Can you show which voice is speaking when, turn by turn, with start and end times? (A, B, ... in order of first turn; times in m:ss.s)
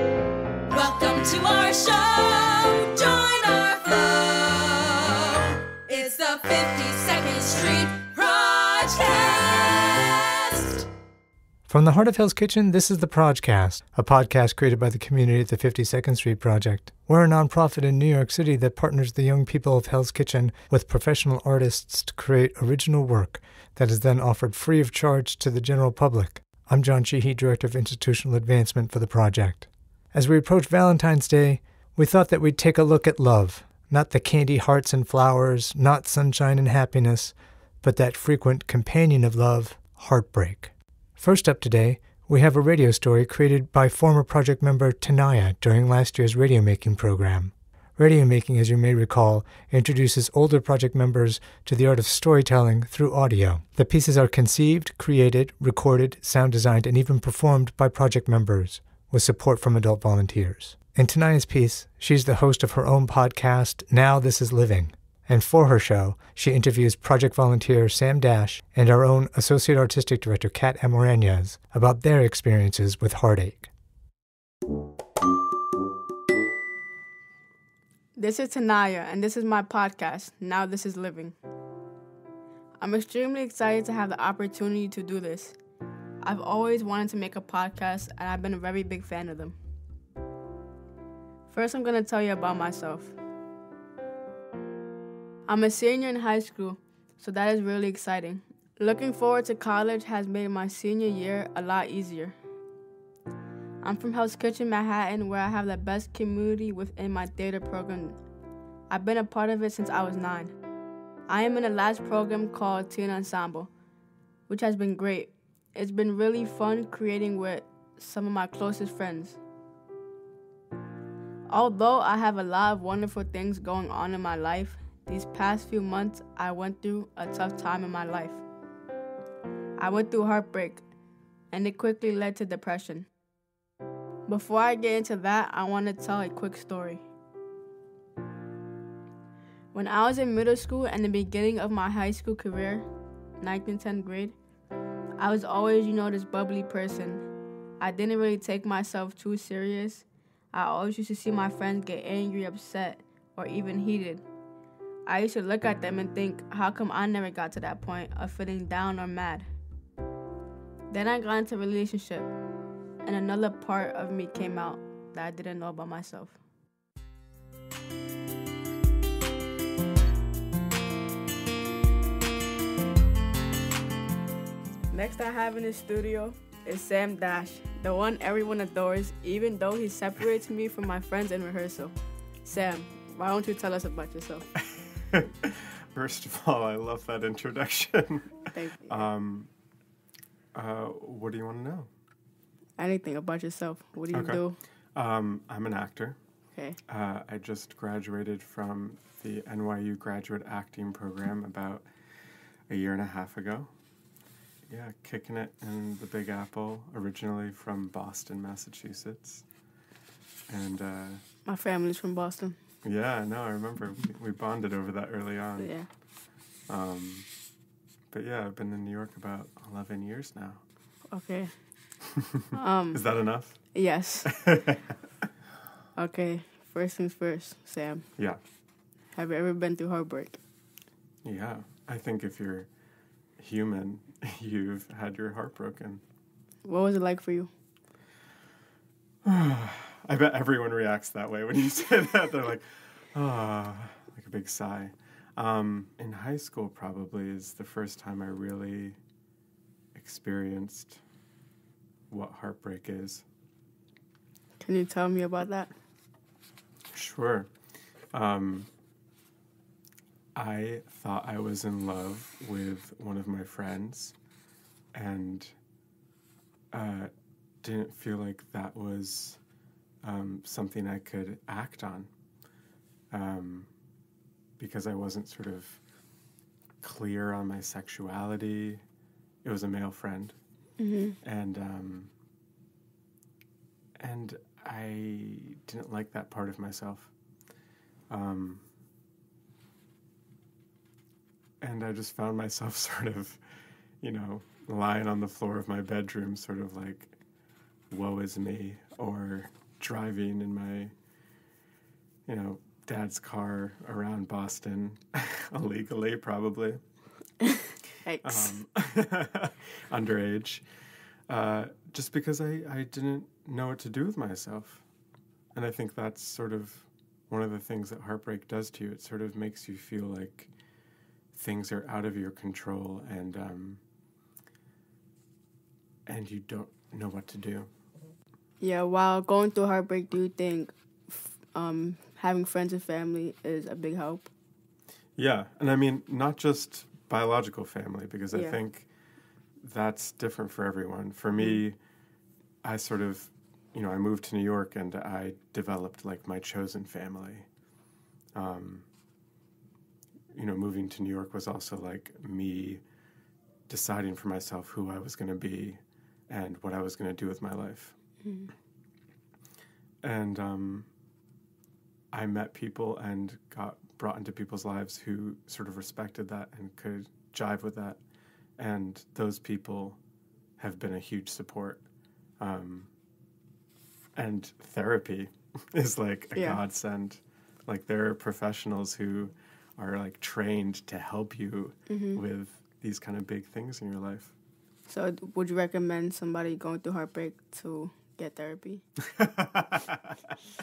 0:00.7-0:10.9 A
0:11.7-1:13.7 B
1:18.2-1:21.4 C
1:22.8-1:25.6 C
1:26.2-1:29.6 C
1:31.5-1:33.2 C
1:35.5-1:42.3 C
1:43.8-1:48.2 C
1:48.9-1:50.6 C
1:51.3-1:53.7 C
1:54.5-1:59.4 C
2:01.5-2:08.4 C
2:09.8-2:10.8 C
2:11.5-2:13.1 C
2:14.3-2:17.0 C
2:19.7-2:22.9 C
2:23.4-2:24.4 C
2:25.2-2:27.3 C
2:27.8-2:34.2 C
2:35.1-2:39.5 C
2:40.9-2:42.3 C
2:43.0-2:46.4 C
2:54.9-3:01.9 C
3:02.4-3:04.5 C
3:05.1-3:09.5 D
3:08.5-3:09.1 C
3:10.5-3:11.9 D
3:12.8-3:14.6 C
3:14.1-3:16.2 D
3:16.9-3:21.9 D
3:22.7-3:23.7 D
3:24.7-3:29.5 D
3:30.5-3:31.2 D
3:31.5-3:32.6 C
3:32.8-3:35.8 D
3:35.6-3:35.9 C
3:36.7-3:37.3 D
3:38.1-3:40.6 D
3:41.1-3:41.6 C
3:42.5-3:43.0 C
3:42.9-3:44.8 D
3:43.5-3:44.3 C
3:46.0-3:48.1 C
3:49.1-3:50.4 C
3:51.2-3:52.7 D
3:53.4-3:56.0 D
3:56.6-3:57.5 C
3:59.2-4:09.0 D
4:10.0-4:11.0 D
4:12.1-4:13.2 D
4:14.6-4:15.7 C
4:16.9-4:17.5 D
4:18.1-4:18.7 D
4:20.4-4:24.2 D
4:24.9-4:25.5 D
4:26.7-4:27.1 D
4:27.6-4:29.4 D
4:30.0-4:32.1 D
4:33.1-4:33.7 D
4:34.6-4:35.8 D
4:36.8-4:38.8 D
4:39.4-4:40.7 D
4:40.8-4:41.2 C
4:41.2-4:42.1 D
4:44.0-4:47.1 D
4:48.1-4:48.6 D
4:51.6-4:53.4 D
4:54.0-4:57.1 D
4:57.9-5:00.9 D
5:02.3-5:06.8 D
5:08.0-5:08.6 C
5:08.2-5:10.6 D
5:11.3-5:14.8 D
5:15.5-5:20.5 D
5:21.3-5:23.8 D
5:26.1-5:27.7 D
5:28.6-5:34.3 C
5:35.2-5:38.9 D
5:39.6-5:41.8 D
5:42.6-5:47.5 D
5:48.3-5:48.9 D
5:50.3-5:52.8 D
5:53.7-5:58.0 D
5:58.2-5:58.5 C
6:00.0-6:00.9 D
6:02.1-6:08.0 D
6:08.6-6:10.0 D
6:10.6-6:11.8 D
6:12.4-6:12.9 D
6:14.2-6:24.3 D
6:21.9-6:22.2 C
6:24.9-6:28.8 C
6:29.2-6:30.3 D